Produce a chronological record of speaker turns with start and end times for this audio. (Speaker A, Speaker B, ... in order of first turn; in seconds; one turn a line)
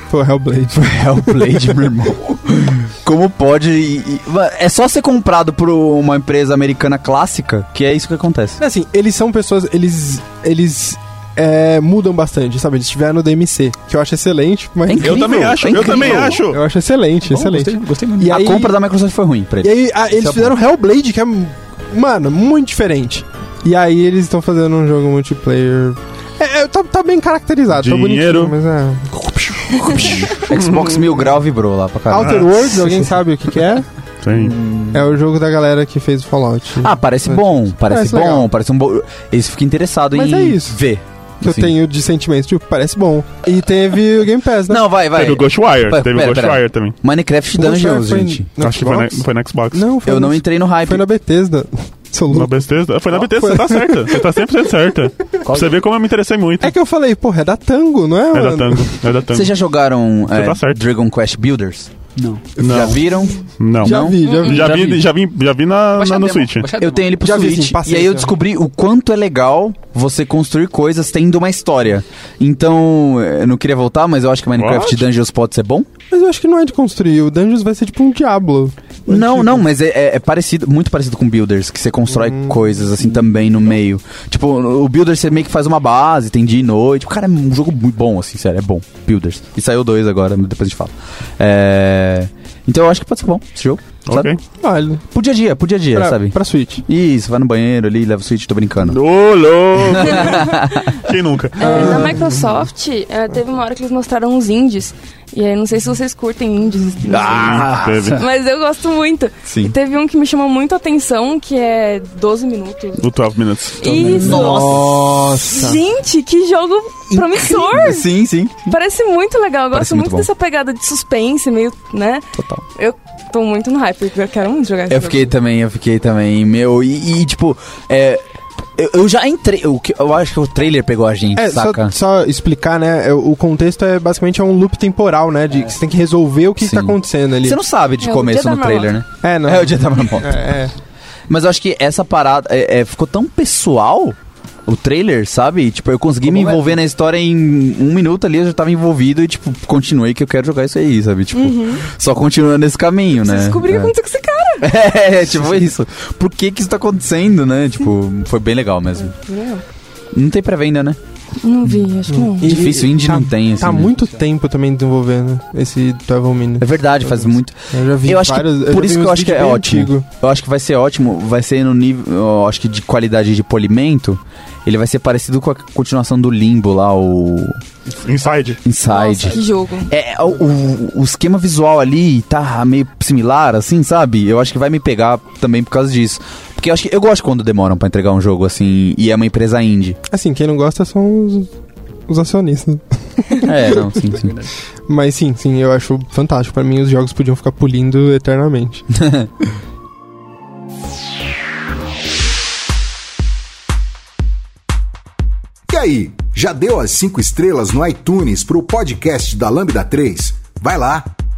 Speaker A: 0.1-1.9
Speaker B: 0.7-8.6
Speaker A: 8.6-18.8
Speaker B: 14.8-16.4
Speaker C: 14.9-16.6
Speaker D: 17.2-18.6
Speaker B: 18.2-20.5
Speaker A: 19.6-30.2
Speaker C: 27.7-28.5
Speaker B: 29.8-33.1
Speaker C: 30.2-31.0
Speaker A: 32.1-33.9
Speaker C: 32.2-32.5
Speaker C: 34.2-34.5
Speaker B: 34.5-35.0
Speaker A: 34.9-38.5
Speaker B: 36.8-41.7
Speaker A: 40.1-40.8
Speaker A: 41.4-44.8
Speaker B: 44.7-48.5
Speaker C: 45.1-46.9
Speaker A: 47.5-52.5
Speaker C: 48.6-49.8
Speaker B: 50.0-51.0
Speaker C: 52.3-56.7
Speaker A: 53.1-54.2
Speaker D: 55.4-55.8
Speaker A: 56.6-59.0
Speaker C: 58.3-59.5
Speaker B: 59.3-61.9
Speaker C: 60.3-60.8
Speaker D: 62.1-62.6
Speaker C: 62.6-63.0
Speaker B: 62.6-64.2
Speaker A: 62.7-62.9
Speaker C: 63.6-66.7
Speaker A: 63.8-64.8
Speaker E: 64.2-64.7
Speaker D: 64.4-65.1
Speaker B: 66.0-75.9
Speaker D: 66.5-67.1
Speaker A: 67.2-68.3
Speaker C: 74.5-75.0
Speaker A: 76.1-79.6
Speaker B: 79.1-94.3
Speaker A: 82.1-82.6
Speaker C: 94.1-94.4
Speaker A: 94.6-95.0
Speaker B: 95.1-99.0
Speaker A: 95.9-96.8
Speaker C: 98.8-102.0
Speaker B: 100.0-100.9
Speaker E: 101.6-107.5
Speaker A: 101.6-102.5
Speaker B: 107.0-108.1
Speaker C: 107.2-108.2
Speaker E: 108.2-113.0
Speaker B: 109.5-109.7
Speaker C: 113.0-113.9
Speaker E: 113.8-118.1
Speaker D: 113.8-114.3
Speaker B: 114.0-115.3
Speaker A: 114.0-115.8
Speaker B: 117.1-118.7
Speaker E: 118.6-125.3
Speaker B: 119.7-120.3
Speaker B: 122.4-122.6
Speaker B: 124.9-128.2
Speaker B: 128.8-131.9
Speaker A: 131.3-137.6
Speaker B: 136.6-140.4
Speaker E: 138.0-138.9
Speaker A: 139.2-140.7
Speaker B: 141.3-153.9
Speaker A: 146.3-146.6
Speaker E: 151.3-151.8
Speaker E: 153.2-154.7
Speaker B: 154.6-159.2
Speaker E: 159.0-159.6
Speaker B: 160.1-161.0
Speaker E: 161.4-162.7
Speaker A: 162.1-170.0
Speaker B: 162.4-163.9
Speaker B: 166.6-177.6
Speaker C: 178.0-178.6
Speaker B: 178.6-190.0
Speaker E: 178.9-179.9
Speaker A: 190.1-191.5
Speaker A: 192.1-194.0
Speaker B: 193.4-194.3
Speaker D: 194.2-194.5
Speaker A: 194.9-198.8
Speaker B: 199.0-199.3
Speaker F: 205.7-211.1